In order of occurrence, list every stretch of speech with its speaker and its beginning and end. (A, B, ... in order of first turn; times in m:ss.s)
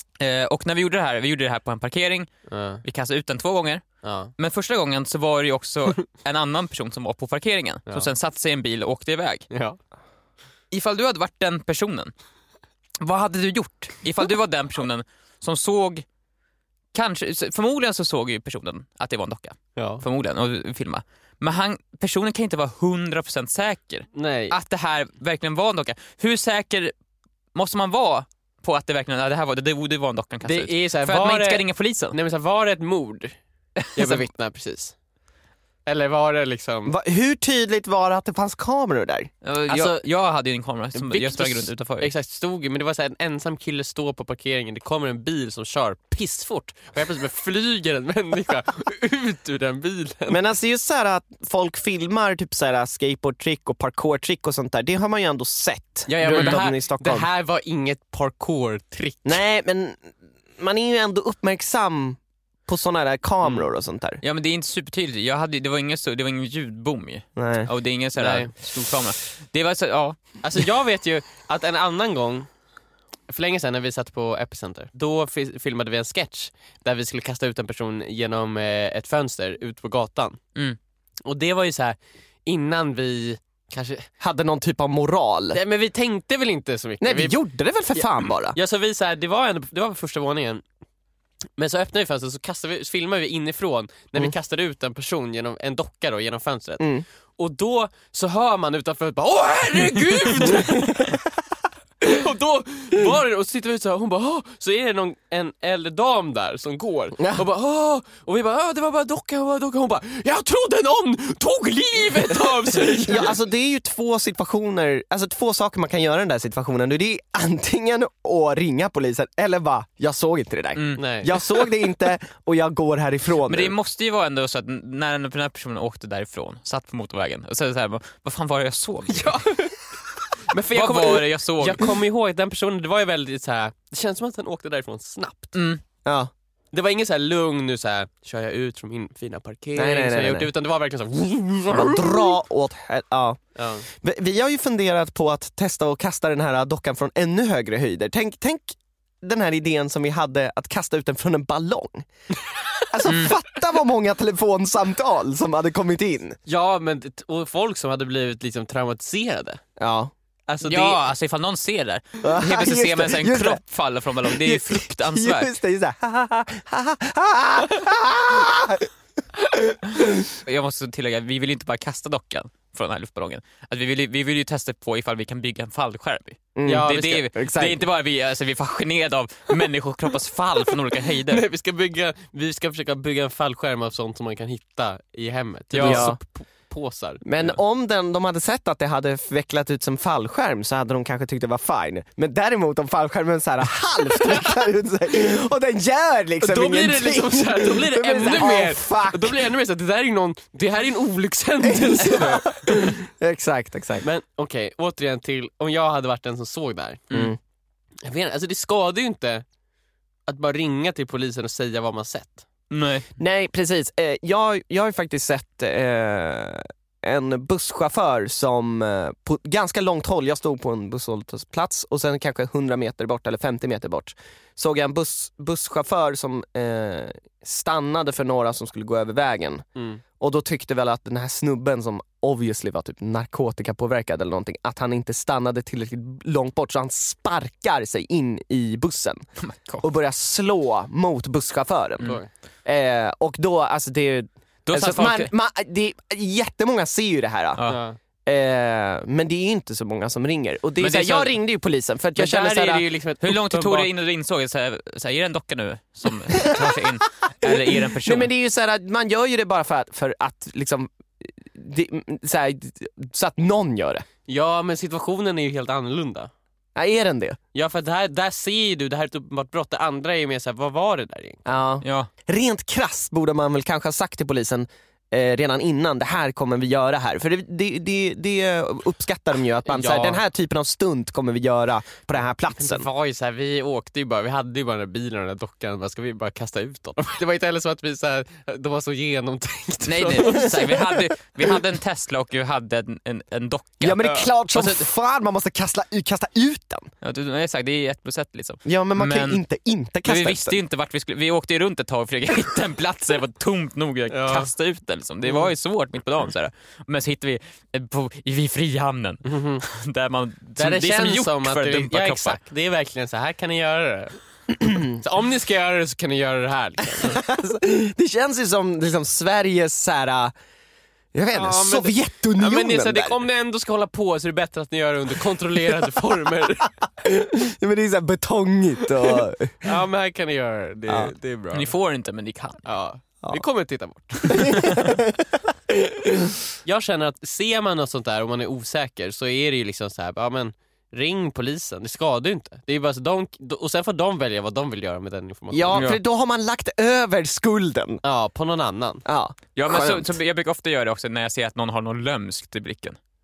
0:00.2-0:02.3 A
0:02.5-0:02.8 B
0:02.8-0:03.8 A
0:04.0-0:04.3 B
0:04.4-0:09.5 A
0:09.5-0:09.8 B
0:10.7-0:12.1 A
0:13.0-0:16.0 A
0:16.9-0:26.9 A
0:19.8-0:20.0 B
0:24.1-0:24.6 B
0:27.6-0:32.2 A
0:30.4-0:33.4 B
0:34.0-0:35.0 B
0:34.0-0:34.3 A
0:35.9-0:37.0 B
0:36.9-0:39.3 C
0:39.4-0:42.1 A
0:39.7-0:40.0 B
0:41.0-0:50.4 B
0:50.3-0:57.3 C
0:56.1-0:59.4 B
0:56.2-0:56.6 A
0:59.2-1:00.0 C
1:00.6-1:04.2 C
1:04.2-1:10.4 A
1:07.4-1:07.7 C
1:08.2-1:08.5 B
1:10.4-1:12.5 B
1:13.3-1:20.4 B
1:21.2-1:24.1 B
1:24.2-1:25.6 C
1:25.5-1:27.4 B
1:27.0-1:28.6 C
1:28.0-1:30.6 B
1:31.6-1:41.2 B
1:36.8-1:37.0 C
1:40.9-1:41.1 C
1:42.0-1:53.4 B
1:47.2-1:47.4 C
1:53.0-2:03.7 C
2:00.8-2:01.0 A
2:01.0-2:01.4 B
2:03.5-2:09.4 A
2:09.1-2:09.8 B
2:10.5-2:15.6 B
2:10.7-2:11.9 A
2:15.5-2:15.8 A
2:16.0-2:16.3 C
2:16.7-2:22.4 B
2:19.8-2:20.5 C
2:21.7-2:32.1 C
2:23.6-2:23.9 B
2:32.9-2:36.4 C
2:33.1-2:33.4 A
2:36.5-2:39.6 B
2:39.8-2:40.1 C
2:40.5-2:41.0 B
2:40.6-2:45.5 A
2:42.2-2:43.6 C
2:44.2-2:48.9 C
2:49.5-2:50.1 C
2:50.3-3:01.4 A
2:56.6-2:57.8 C
2:56.6-2:57.3 B
3:01.3-3:07.6 B
3:05.7-3:06.2 A
3:05.8-3:06.2 C
3:07.2-3:19.4 C
3:16.4-3:22.9 B
3:21.6-3:24.1 C
3:24.0-3:27.1 B
3:27.1-3:27.4 C
3:28.0-3:29.4 B
3:30.3-3:32.5 B
3:32.7-3:33.1 A
3:33.2-3:49.6 C
3:49.8-3:50.0 B
3:50.2-3:59.3 C
3:59.4-3:59.8 A
3:59.8-4:07.6 C
4:02.0-4:02.3 B
4:04.7-4:05.3 A
4:07.7-4:08.0 B
4:08.3-4:12.9 C
4:10.8-4:11.4 A
4:12.2-4:13.9 B
4:13.2-4:18.3 A
4:17.4-4:24.0 C
4:24.3-4:26.3 B
4:26.8-4:27.4 C
4:27.5-4:31.4 B
4:31.4-4:42.9 C
4:31.8-4:32.1 A
4:39.7-4:40.2 B
4:42.6-4:50.7 B
4:49.8-4:54.8 A
4:50.5-4:50.9 C
4:53.8-4:56.9 C
4:57.0-4:59.4 A
4:58.7-5:00.6 C
5:00.1-5:12.4 A
5:04.1-5:04.5 B
5:09.2-5:09.6 B
5:10.6-5:14.2 B
5:14.7-5:17.2 B
5:17.0-5:20.3 C
5:21.1-5:23.2 C
5:21.3-5:26.7 B
5:27.0-5:29.7 C
5:29.6-5:31.7 B
5:30.9-5:31.1 C
5:31.5-5:32.6 A
5:32.6-5:34.8 B
5:34.3-5:36.3 C
5:36.6-5:45.9 B
5:45.5-5:48.0 C
5:48.0-5:49.0 B
5:49.0-5:50.1 C
5:49.6-5:53.0 A